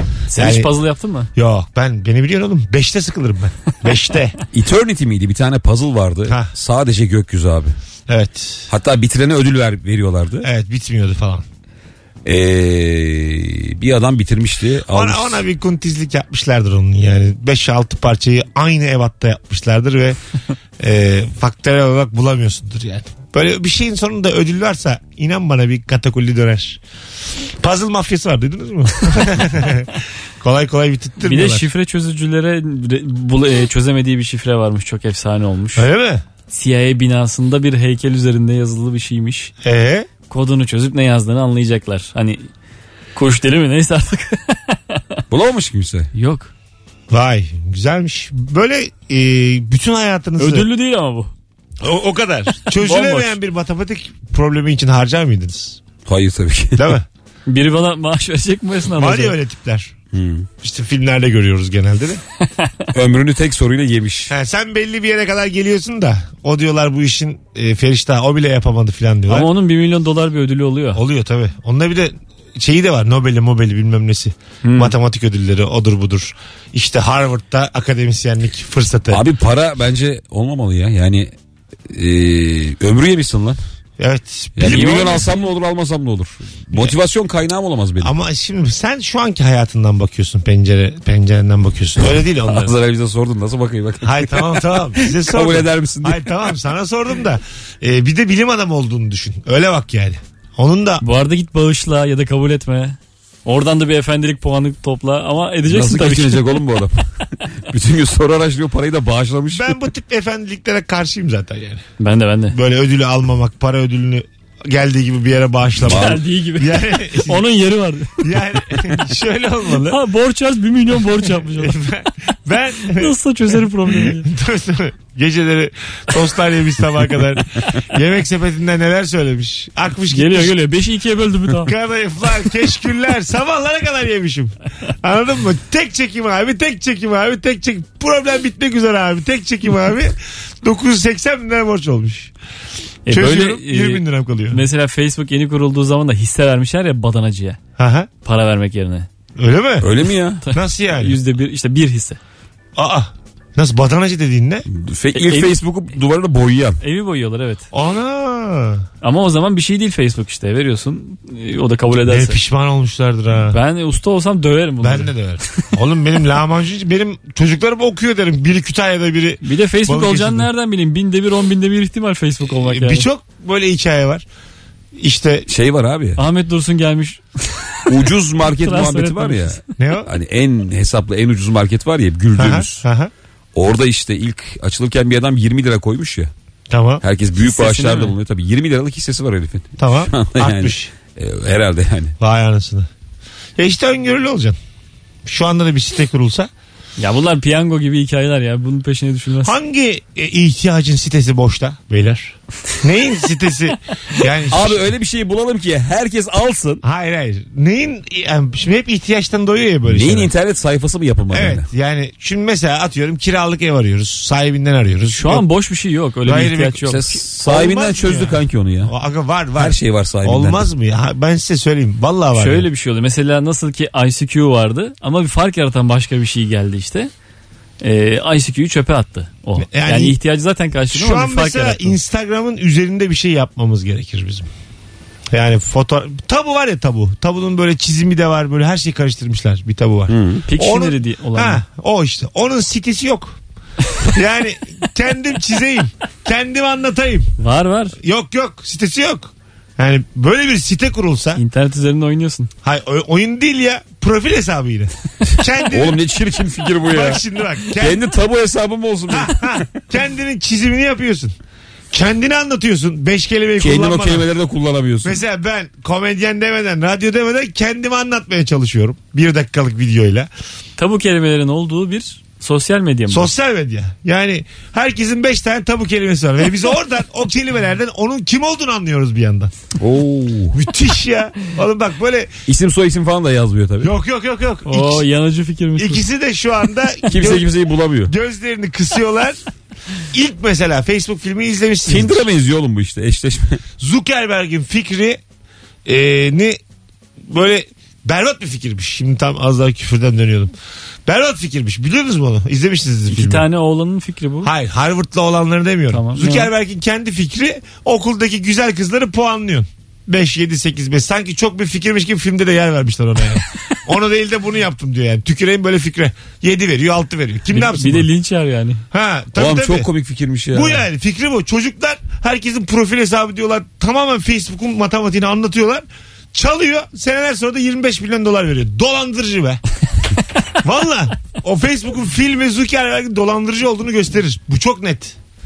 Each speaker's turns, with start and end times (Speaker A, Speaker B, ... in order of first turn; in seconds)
Speaker A: 0.3-1.3, 31.2-35.9, 36.5-39.5, 40.3-42.5, 43.1-45.1, 46.1-46.5, 50.4-51.3, 52.8-53.4, 57.5-59.4, 69.3-71.0, 74.6-74.9, 101.0-106.4, 112.0-112.6, 115.8-118.2, 119.9-121.8, 122.8-124.3, 130.1-131.7, 143.1-147.6, 148.2-149.1, 150.5-152.2, 155.1-155.6, 156.8-157.7, 159.0-162.4, 163.5-165.1, 169.4-173.1, 176.2-179.6, 187.4-188.1, 197.0-199.5, 215.1-217.2, 222.3-227.1, 227.8-231.9, 240.5-241.6, 247.4-247.9, 251.3-252.5, 270.8-273.3, 284.7-286.0, 303.1-304.5, 305.9-306.5, 317.5-318.8
Speaker B: 0.3-0.7, 1.3-4.4, 8.1-8.7, 10.4-11.4, 14.9-20.2, 20.8-26.8, 27.4-31.6, 35.8-36.2, 39.6-40.1, 47.1-50.7, 51.8-55.8, 56.8-57.0, 58.9-59.9, 60.6-62.2, 64.3-69.5, 70.9-79.2, 84.0-85.3, 88.0-92.7, 94.0-101.0, 109.5-111.8, 112.5-117.4, 118.2-120.0, 121.4-123.2, 123.8-130.6, 131.6-142.3, 143.1-144.6, 147.8-148.1, 149.4-149.9, 150.5-151.2, 152.8-154.7, 157.7-158.8, 162.0-163.6, 164.8-170.5, 172.5-174.2, 175.0-175.5, 179.8-180.1, 182.3-183.1, 186.7-187.0, 189.8-190.9, 192.2-192.9, 193.6-194.6, 195.2-196.5, 199.4-204.9, 206.8-210.3, 211.3-215.4, 216.2-222.7, 229.6-230.2, 230.9-234.5, 235.3-243.4, 244.0-247.3, 248.0-251.4, 252.6-256.0, 256.9-258.0, 259.1-261.3, 261.9-264.3, 265.0-270.3, 273.1-279.5, 280.5-282.3, 283.8-285.1, 285.8-287.5, 288.0-289.4, 290.1-292.3, 293.8-295.2, 295.9-296.6, 297.2-300.5, 301.1-303.4, 304.4-318.1, 318.9-319.9, 320.5-329.6, 330.6-335.2
Speaker C: 4.5-7.7, 8.7-10.5, 12.2-15.4, 45.3-46.1, 56.0-56.9, 60.1-60.5, 62.9-64.3, 79.1-81.3, 81.9-83.6, 84.5-88.1, 92.4-96.3, 105.7-107.0, 107.7-109.7, 115.8-116.2, 149.8-150.4, 154.7-156.8, 175.5-176.2, 177.9-182.8, 183.5-186.3, 187.0-192.1, 204.5-206.8, 209.9-211.6, 216.9-218.9, 219.6-220.7, 240.1-240.4, 255.7-257.2, 257.8-259.6, 263.6-265.2, 279.8-280.6, 282.5-283.9, 287.1-288.1, 291.9-293.6, 319.4-320.8